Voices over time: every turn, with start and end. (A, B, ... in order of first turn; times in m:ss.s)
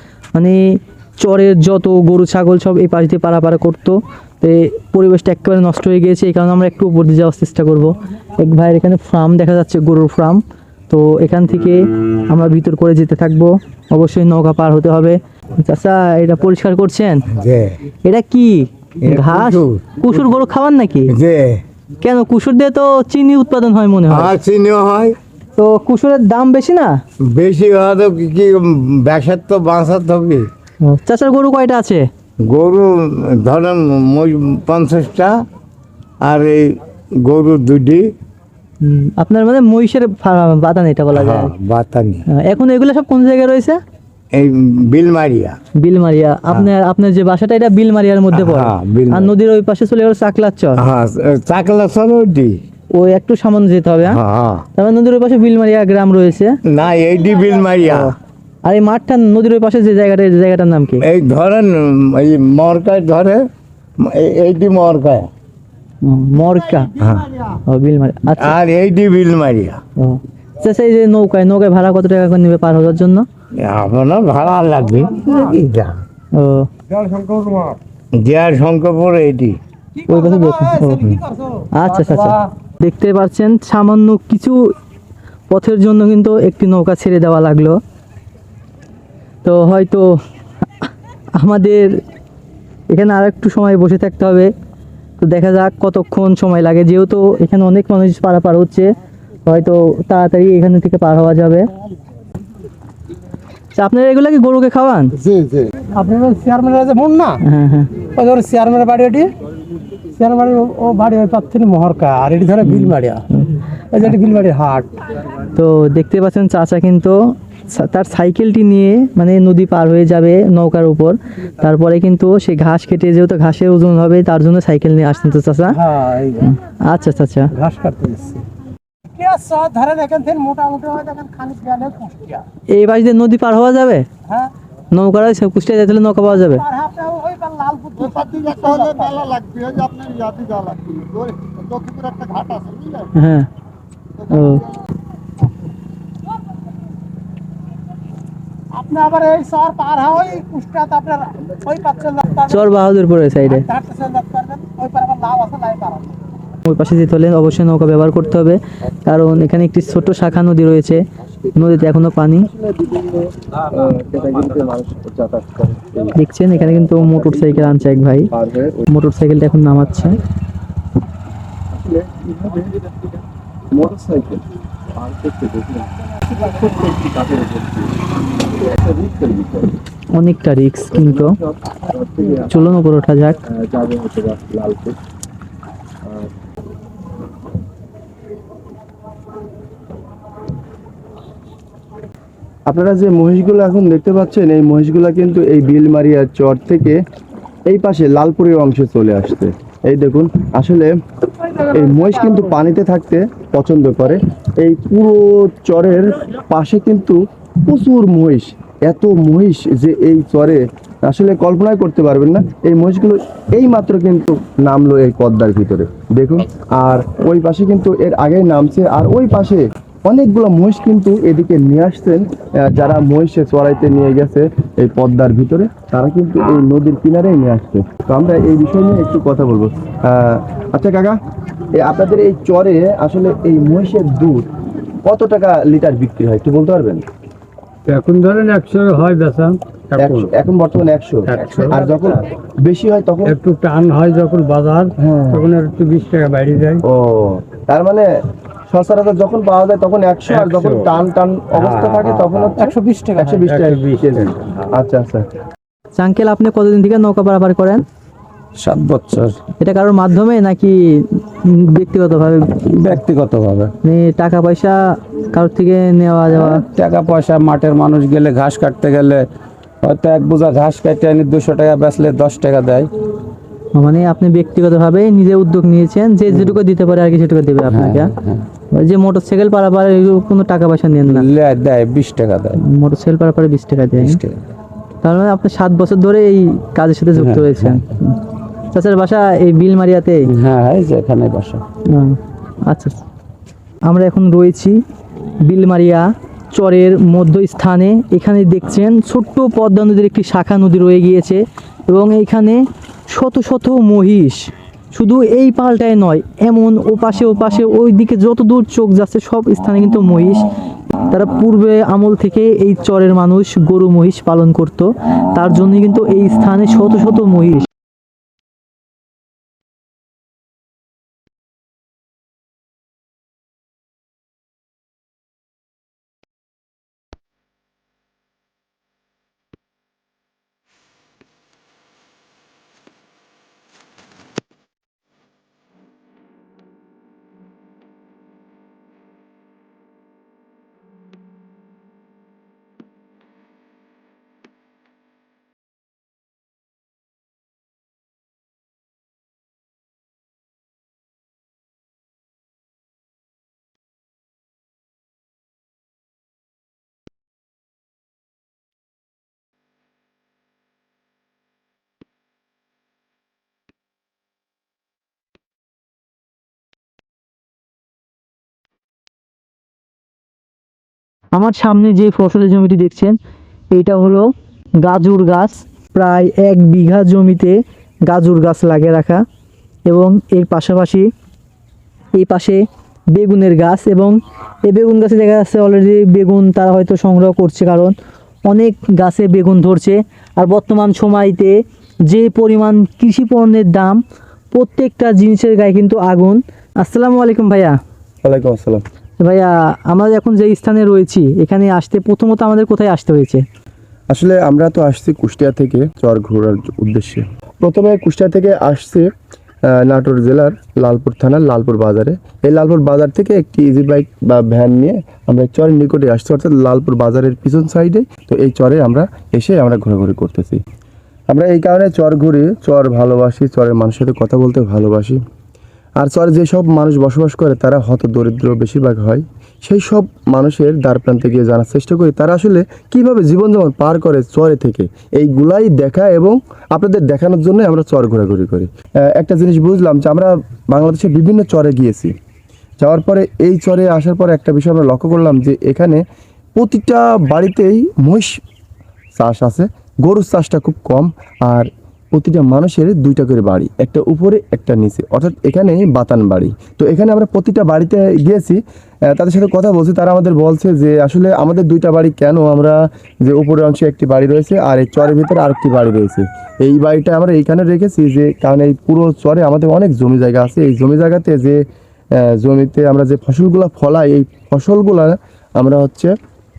0:00.4-0:17.3 A
0:17.3-0:17.8 B
0:18.0-0:21.1 A
0:19.0-0:19.9 B
0:21.1-0:21.6 B
0:22.0-0:24.4 A
0:24.1-0:25.2 B
0:25.6-0:27.0 A
0:27.2-0:30.5 B
0:30.8-0:32.1 A
0:32.4-0:35.4 B
0:36.2-0:38.1 B
0:38.8-0:41.5 A
0:41.1-0:42.2 B
0:42.3-0:43.8 A
0:44.3-0:45.6 B
0:45.8-0:50.8 A
0:48.3-0:49.3 B
0:50.8-0:52.6 B
0:52.9-0:54.2 A
0:54.1-0:54.6 B
0:54.8-0:56.6 A
0:56.7-0:58.1 B
0:57.8-1:01.0 A
1:01.0-1:03.5 B
1:04.0-1:05.3 B
1:06.0-1:07.0 A
1:07.0-1:07.3 B
1:07.5-1:08.6 A
1:08.4-1:09.8 B
1:10.0-1:13.3 A
1:13.6-1:16.0 B
1:16.3-1:16.7 A
1:17.0-1:17.5 B
1:18.2-1:19.6 B
1:20.1-1:21.0 A
1:20.7-1:21.6 C
1:21.7-1:24.6 A
1:25.5-1:27.8 A
1:29.4-1:30.2 A
1:30.8-1:32.0 A
1:32.9-1:34.5 A
1:35.2-1:38.9 A
1:39.5-1:41.7 A
1:43.7-1:45.2 A
1:45.2-1:47.4 C
1:47.4-1:47.9 A
1:48.0-1:49.3 C
1:50.1-1:53.2 C
1:52.6-1:54.2 A
1:53.9-1:54.9 C
1:55.5-2:05.8 A
2:05.8-2:06.5 C
2:06.4-2:07.5 A
2:07.5-2:08.4 C
2:09.1-2:12.4 C
2:12.7-2:14.1 A
2:14.9-2:16.7 A
2:16.6-2:23.0 C
2:23.1-2:23.5 A
2:24.2-2:24.7 A
2:28.7-2:32.6 C
2:32.4-2:33.7 A
2:33.6-2:36.1 C
2:36.6-2:41.0 A
2:41.6-2:42.5 A
2:42.5-2:46.2 D
2:46.2-2:48.3 A
2:46.7-2:48.9 D
2:48.9-2:50.2 A
2:51.7-2:54.4 D
2:55.0-2:58.0 D
2:58.5-2:59.7 D
3:00.2-3:01.4 A
3:00.9-3:02.5 D
3:02.4-3:03.4 A
3:03.5-3:05.0 D
3:12.7-3:17.0 D
3:17.7-3:20.9 D
3:21.6-3:51.2 D
3:51.7-3:54.5 D
3:55.0-3:57.0 D
3:57.9-4:00.3 E
4:00.0-4:03.4 D
4:01.3-4:02.2 E
4:03.3-4:06.8 E
4:05.0-4:05.5 D
4:06.8-4:08.1 D
4:08.7-4:15.3 D
4:10.3-4:10.9 E
4:11.5-4:12.5 E
4:12.6-4:13.4 C
4:13.4-4:14.5 E
4:16.0-4:17.8 A
4:18.6-4:19.4 E
4:19.6-4:22.9 A
4:22.7-4:23.7 E
4:23.8-4:24.8 A
4:25.3-4:26.6 A
4:26.3-4:29.2 E
4:29.8-4:32.9 E
4:33.8-4:38.1 A
4:36.3-4:36.6 E
4:37.7-4:38.5 E
4:38.7-4:41.2 A
4:41.1-4:42.6 E
4:42.6-4:44.2 A
4:44.0-4:44.4 E
4:45.0-4:48.2 A
4:47.2-4:47.8 E
4:48.7-4:50.3 A
4:50.3-4:51.6 E
4:51.9-4:52.2 A
4:52.7-4:53.0 A
4:53.9-4:54.8 A
4:55.4-5:10.5 A
5:11.1-5:17.7 A
6:11.4-6:13.2 A
6:13.7-6:14.3 A
6:14.8-6:19.2 A
6:19.9-6:21.1 A
6:22.2-6:27.9 A
6:28.5-6:34.0 A
6:34.5-6:37.8 A
6:38.2-6:38.8 D
6:39.2-6:43.4 A
6:44.1-6:49.1 D
6:49.7-7:00.6 D
7:01.3-7:05.2 D
7:06.0-7:22.1 D
7:22.8-7:26.0 D
7:26.6-7:28.4 D
7:29.2-7:51.6 D
7:52.2-7:56.1 D